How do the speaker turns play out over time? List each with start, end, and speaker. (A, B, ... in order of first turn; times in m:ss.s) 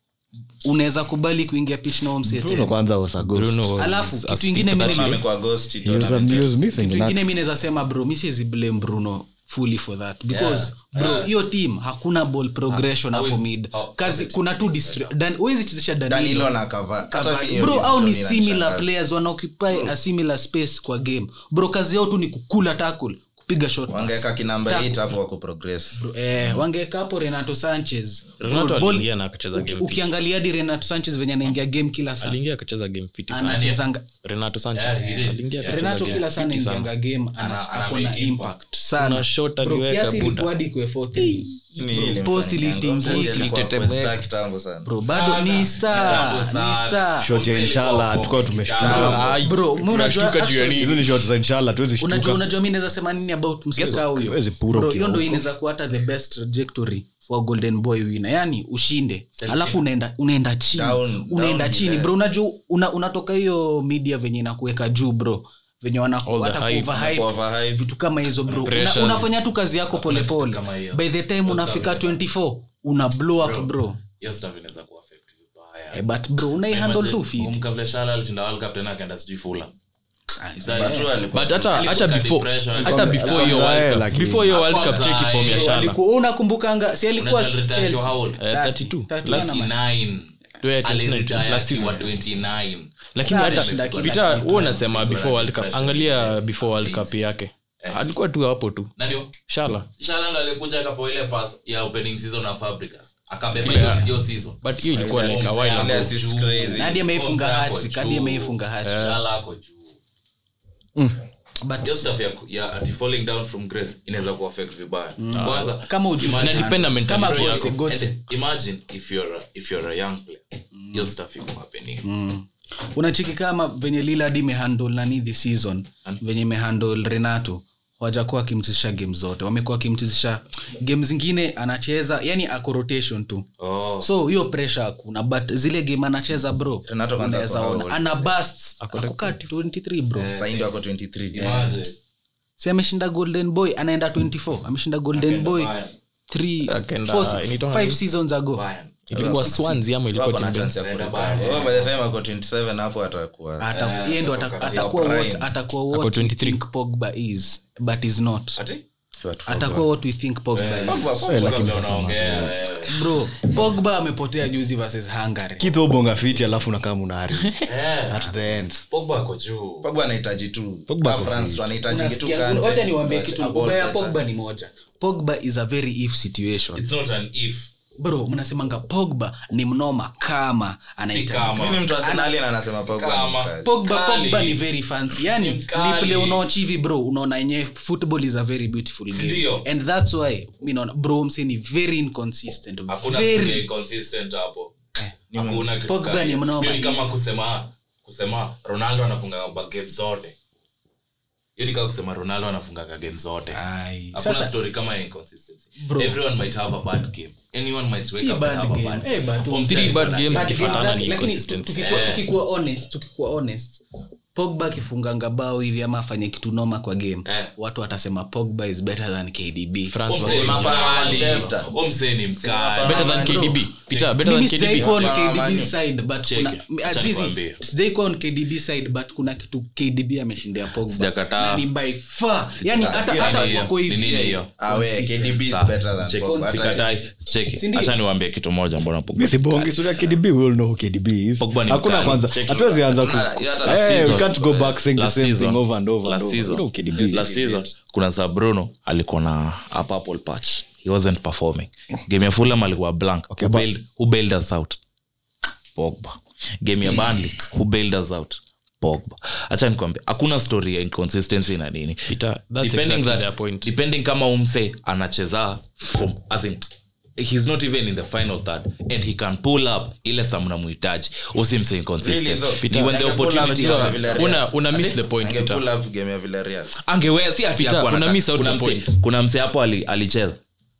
0:00.6-0:02.8 A
0:02.2-0:03.7 B
0:03.3-0:05.2 C
0:03.8-0:05.2 A
0:04.7-0:06.5 D
0:05.8-0:07.2 B
0:06.7-0:16.6 A
0:10.4-0:11.2 E
0:12.7-0:15.1 E
0:16.1-0:18.9 D
0:17.1-0:25.1 A
0:23.9-0:26.6 D
0:26.0-0:32.4 A
0:28.4-0:30.2 C
0:32.2-0:36.9 C
0:33.3-0:34.1 A
0:33.4-0:33.8 E
0:34.7-0:36.3 E
0:35.6-0:43.6 A
0:37.4-0:38.6 E
0:39.0-0:40.5 C
0:41.8-0:44.9 D
0:43.0-0:44.2 C
0:44.8-0:47.3 A
0:45.1-0:49.5 E
0:47.2-0:49.1 B
0:48.8-0:49.2 D
0:48.8-0:51.0 A
0:48.9-0:51.1 C
0:50.8-0:52.4 B
0:52.0-1:14.0 A
0:53.8-0:55.5 B
0:59.4-0:59.8 E
1:00.7-1:02.1 D
1:06.2-1:07.0 C
1:07.0-1:07.8 D
1:08.6-1:09.4 C
1:09.9-1:12.2 E
1:13.4-1:16.0 E
1:15.9-1:17.6 A
1:16.7-1:19.7 E
1:20.4-1:22.1 A
1:20.6-1:21.0 E
1:20.6-1:21.9 D
1:21.3-1:26.0 C
1:21.7-1:25.7 E
1:22.8-1:23.7 A
1:23.1-1:24.5 B
1:24.7-1:29.7 A
1:27.2-1:28.4 E
1:28.4-1:29.6 C
1:29.2-1:37.2 E
1:30.6-1:32.1 C
1:33.2-1:39.9 C
1:33.2-1:34.9 A
1:39.0-1:39.4 E
1:40.0-1:50.0 E
1:43.6-1:44.1 C
1:43.6-1:44.1 A
1:44.6-1:46.2 C
1:45.0-1:47.0 D
1:46.7-1:49.2 A
1:48.8-1:49.2 C
1:51.6-1:52.1 A
1:51.8-2:02.0 E
1:55.2-1:58.2 A
1:55.4-1:55.7 C
1:56.2-1:57.8 C
2:00.8-2:01.1 A
2:02.0-2:13.5 A
2:13.6-2:14.1 E
2:14.0-2:20.4 A
2:16.9-2:18.3 D
2:18.8-2:19.4 C
2:20.2-2:20.7 E
2:20.3-2:21.8 D
2:21.3-2:22.0 E
2:22.6-2:25.8 A
2:25.1-2:25.9 E
2:26.3-2:29.8 A
2:26.6-2:28.0 C
2:28.5-2:29.1 E
2:29.1-2:30.7 C
2:29.2-2:33.7 D
2:30.8-2:31.9 E
2:33.6-2:38.6 A
2:33.7-2:34.9 E
2:34.6-2:35.5 D
2:35.9-2:36.6 C
2:38.6-2:38.8 E
2:39.2-2:39.9 D
2:39.5-2:41.2 A
2:40.5-2:43.6 E
2:40.8-2:41.6 D
2:41.1-2:42.6 B
2:42.9-2:45.7 A
2:45.6-2:48.8 B
2:47.6-2:48.3 E
2:48.9-2:49.9 E
2:49.8-2:54.2 D
2:50.9-2:51.7 B
2:51.9-2:56.8 A
2:56.8-2:57.7 E
2:58.0-3:02.4 A
3:01.1-3:01.9 E
3:01.5-3:03.7 D
3:02.9-3:04.6 E
3:03.6-3:13.7 A
3:05.2-3:06.4 E
3:09.1-3:09.7 E
3:12.9-3:14.7 E
3:15.3-3:20.4 E
3:15.3-3:15.6 D
3:15.8-3:17.1 A
3:21.6-3:23.6 E
3:23.5-3:24.5 A
3:24.1-3:31.0 E
3:25.8-3:26.2 A
3:28.1-3:33.8 A
3:29.7-3:32.1 C
3:31.8-3:32.3 E
3:34.3-3:40.1 A
3:37.3-3:37.5 E
3:39.9-3:41.5 C
3:40.1-3:43.2 E
3:40.2-3:41.7 D
3:42.4-3:43.6 D
3:42.8-3:44.9 C
3:42.9-3:55.5 A
3:43.9-3:45.4 E
3:44.8-3:45.7 D
3:46.3-3:47.6 E
3:50.9-3:51.7 E
3:52.6-3:54.5 E
3:52.8-3:56.8 D
3:55.4-4:00.2 E
3:56.2-3:57.9 A
3:59.2-4:07.3 B
4:01.4-4:02.9 E
4:02.8-4:04.3 D
4:03.6-4:14.8 E
4:07.0-4:07.7 D
4:13.3-4:13.7 B
4:15.8-4:16.1 E
4:15.8-4:16.1 B
4:16.6-4:26.6 E
4:22.1-4:23.7 C
4:27.2-4:34.4 E
4:32.0-4:36.8 D
4:32.6-4:35.6 C
4:36.8-4:40.4 E
4:37.6-4:39.0 C